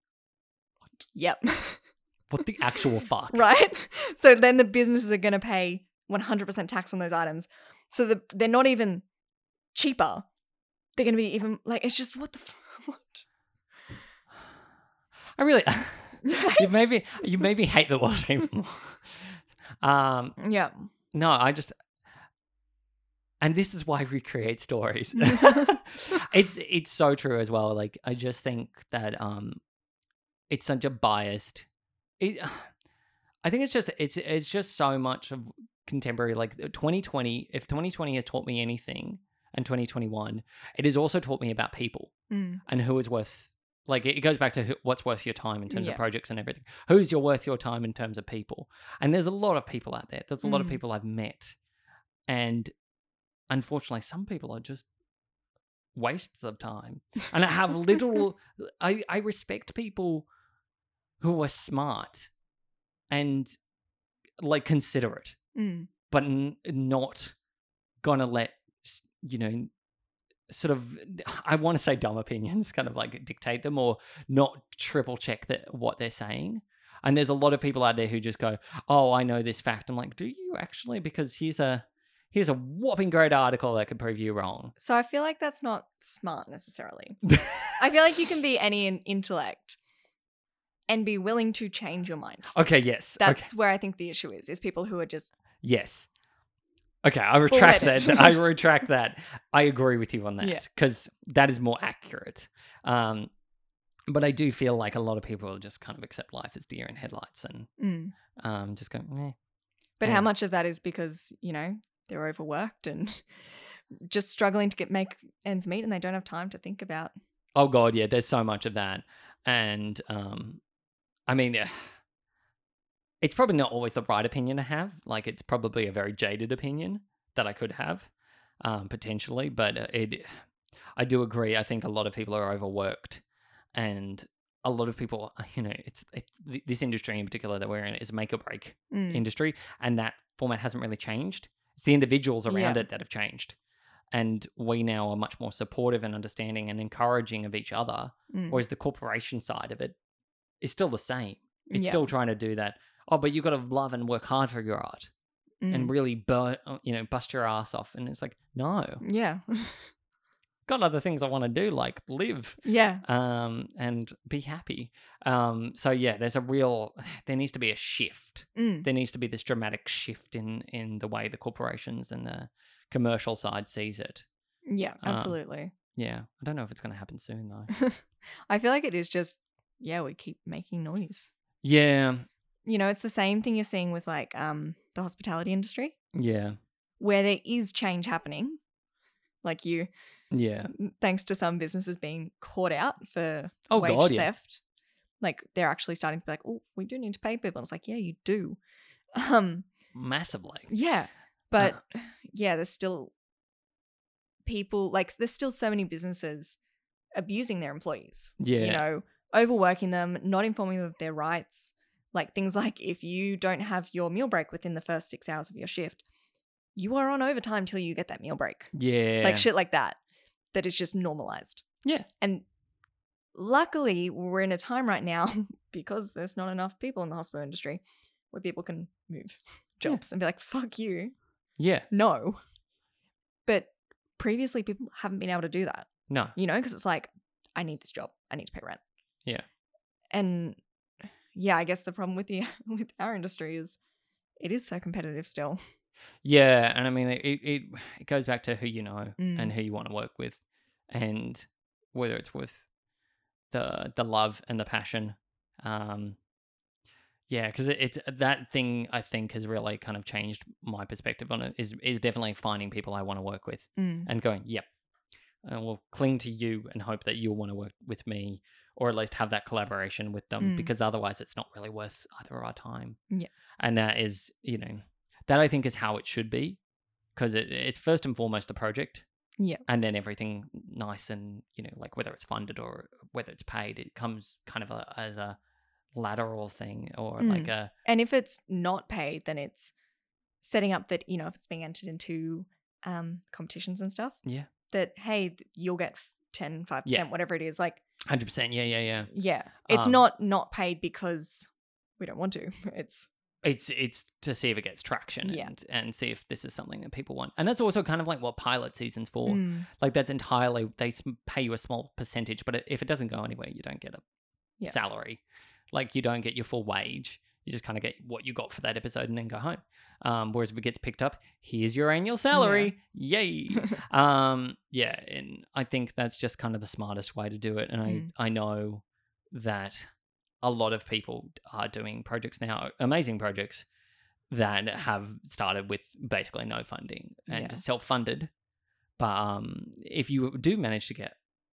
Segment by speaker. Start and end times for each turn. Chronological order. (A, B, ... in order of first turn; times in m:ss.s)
0:01.1-0:01.8 A
0:02.3-0:03.4 B
0:03.3-0:09.0 A
0:09.7-0:10.3 A
0:11.0-0:13.2 A
0:15.4-0:20.4 B
0:16.2-0:16.8 A
0:20.4-0:20.7 A
0:21.1-0:21.7 B
0:23.4-0:29.6 B
0:25.2-0:25.7 A
0:30.5-0:31.7 B
0:32.2-0:32.7 B
0:33.4-0:42.1 B
0:42.3-0:42.6 A
0:42.7-0:51.6 B
0:45.7-0:46.0 A
0:50.4-0:50.8 A
0:52.3-0:52.7 B
0:53.5-0:54.9 B
0:55.9-1:00.3 B
1:01.2-1:02.3 B
1:03.1-1:03.5 B
1:04.4-1:05.4 B
1:05.6-1:05.9 A
1:06.1-1:07.3 B
1:08.0-1:09.7 B
1:10.5-1:24.7 B
1:24.8-1:27.2 A
1:27.3-1:27.7 B
1:27.8-1:29.8 A
1:30.9-1:32.5 A
1:32.5-1:33.5 B
1:33.2-1:35.3 A
1:35.6-1:36.1 B
1:37.0-1:43.3 B
1:37.5-1:38.4 A
1:44.1-1:47.7 B
1:47.8-1:48.1 A
1:48.4-1:49.4 B
1:50.0-1:53.2 A
1:54.0-1:57.1 A
1:57.6-2:00.6 B
2:01.3-2:01.9 B
2:03.2-2:08.1 B
2:08.6-2:10.4 B
2:11.0-2:13.2 B
2:13.7-2:23.6 B
2:18.9-2:19.2 A
2:22.5-2:22.8 A
2:24.1-2:30.0 B
2:28.3-2:28.6 A
2:30.6-2:35.1 B
2:31.7-2:32.1 A
2:35.6-2:35.9 A
2:35.7-2:39.0 B
2:39.0-2:39.9 A
2:40.7-2:54.3 B
2:42.6-2:43.0 A
2:48.6-2:48.9 A
2:54.7-2:55.7 A
2:55.0-2:55.4 B
2:56.0-2:57.7 B
2:57.7-3:01.3 A
3:01.6-3:02.3 B
3:02.7-3:06.0 A
3:06.1-3:06.6 B
3:07.0-3:08.6 A
3:09.4-3:09.9 A
3:10.3-3:10.7 B
3:10.7-3:14.6 A
3:13.7-3:14.3 B
3:15.2-3:18.6 A
3:19.2-3:19.7 A
3:19.9-3:20.7 B
3:20.7-3:23.1 A
3:24.4-3:26.6 A
3:27.2-3:36.0 A
3:28.4-3:28.8 B
3:36.8-3:40.0 A
3:38.7-3:39.5 B
3:40.5-3:41.6 A
3:42.2-3:42.4 A
3:43.4-3:51.1 A
3:51.6-3:51.9 B
3:51.9-3:52.4 A
3:53.5-3:58.8 A
3:56.1-3:56.4 B
4:00.1-4:00.6 A
4:01.3-4:03.8 A
4:04.4-4:05.6 A
4:06.2-4:12.7 B
4:09.2-4:09.5 A
4:13.5-4:16.2 B
4:17.3-4:24.7 B
4:23.8-4:24.1 A
4:25.4-4:33.0 B
4:30.4-4:30.7 A
4:33.6-4:36.6 B
4:37.2-4:39.0 B
4:39.7-4:45.4 B
4:46.0-4:47.7 B
4:47.2-4:49.7 A
4:50.4-4:54.2 A
4:54.2-4:54.5 B
4:54.7-4:57.8 A
4:58.1-4:59.1 B
4:59.1-5:03.1 A
4:59.7-5:00.0 B
5:03.4-5:14.0 B
5:05.2-5:05.5 A
5:09.3-5:09.7 A
5:14.6-5:29.9 B
5:22.3-5:22.7 A
5:30.4-5:33.7 B
5:34.3-5:38.3 B
5:37.3-5:37.6 A
5:39.0-5:41.2 B